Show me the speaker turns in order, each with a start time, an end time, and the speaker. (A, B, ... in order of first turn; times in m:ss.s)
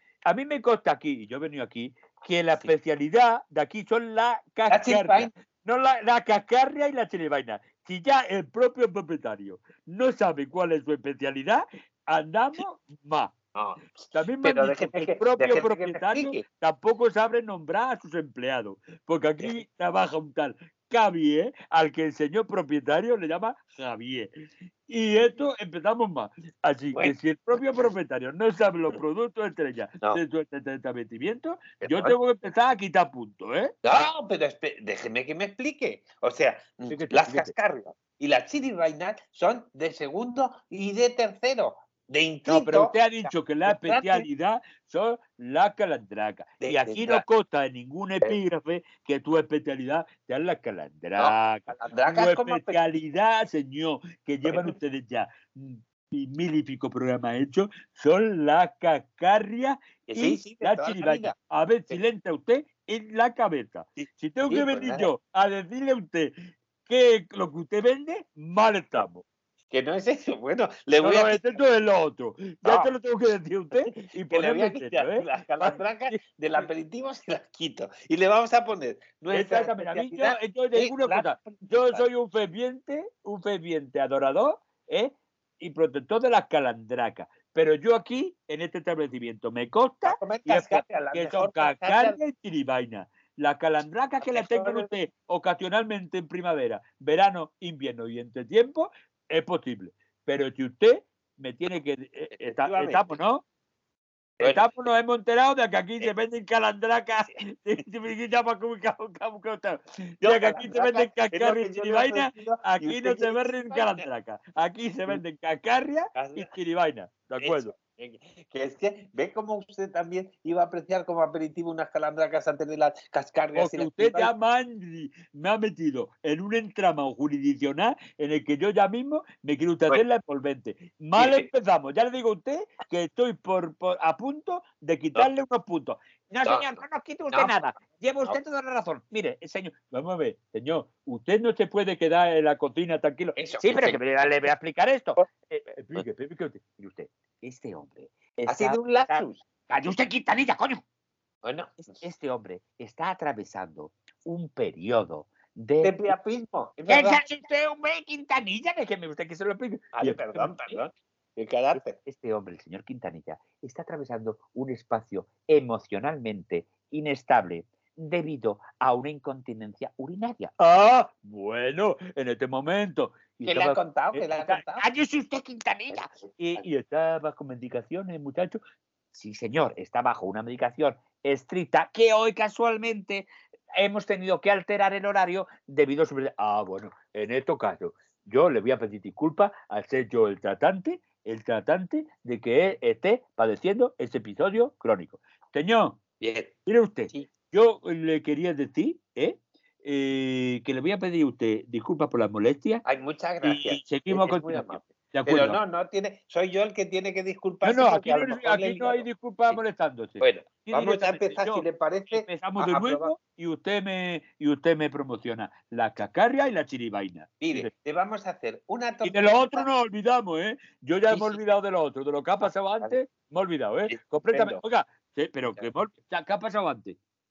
0:00.2-0:13.3 A
0:04.7-0:05.3 B
0:13.5-0:16.4 B
0:14.1-0:24.3 A
0:24.9-0:33.7 A
0:26.9-0:27.9 B
0:31.8-0:32.1 B
0:33.8-0:44.2 B
0:36.9-0:37.5 A
0:42.5-1:06.3 A
0:46.6-0:47.2 B
0:51.2-0:52.8 B
0:54.4-0:54.8 B
1:00.1-1:01.3 B
1:04.0-1:05.1 B
1:06.8-1:09.2 A
1:09.7-1:11.7 B
1:11.0-1:16.7 A
1:12.6-1:12.9 B
1:14.1-1:22.1 B
1:19.3-1:43.4 A
1:30.0-1:32.2 B
1:34.2-1:34.9 B
1:42.4-1:43.2 B
1:44.4-1:44.7 B
1:44.4-1:57.8 A
1:50.2-1:54.0 B
1:56.1-1:56.5 B
1:57.4-2:04.3 B
2:03.5-2:16.0 A
2:11.2-2:11.5 B
2:16.3-2:19.8 C
2:16.4-2:16.8 B
2:17.3-2:17.6 B
2:19.9-2:23.4 A
2:23.4-2:24.0 B
2:23.6-2:25.2 C
2:25.5-2:26.8 A
2:26.8-2:30.8 C
2:28.5-2:29.4 B
2:31.4-2:32.0 B
2:31.8-2:36.1 C
2:35.8-2:37.2 B
2:36.9-2:39.9 C
2:39.9-2:42.0 B
2:40.0-2:40.5 A
2:42.0-2:50.5 C
2:50.6-2:54.6 A
2:53.4-2:54.8 B
2:54.8-2:56.1 C
2:56.4-2:58.6 A
2:59.1-3:06.5 C
3:06.5-3:16.0 A
3:16.2-3:16.5 B
3:16.7-3:22.8 A
3:22.8-3:29.6 B
3:23.4-3:25.6 A
3:27.6-3:37.7 A
3:30.2-3:33.1 B
3:37.4-3:39.7 B
3:39.0-3:47.0 A
3:41.1-3:41.4 B
3:42.4-3:43.0 B
3:43.9-3:44.6 B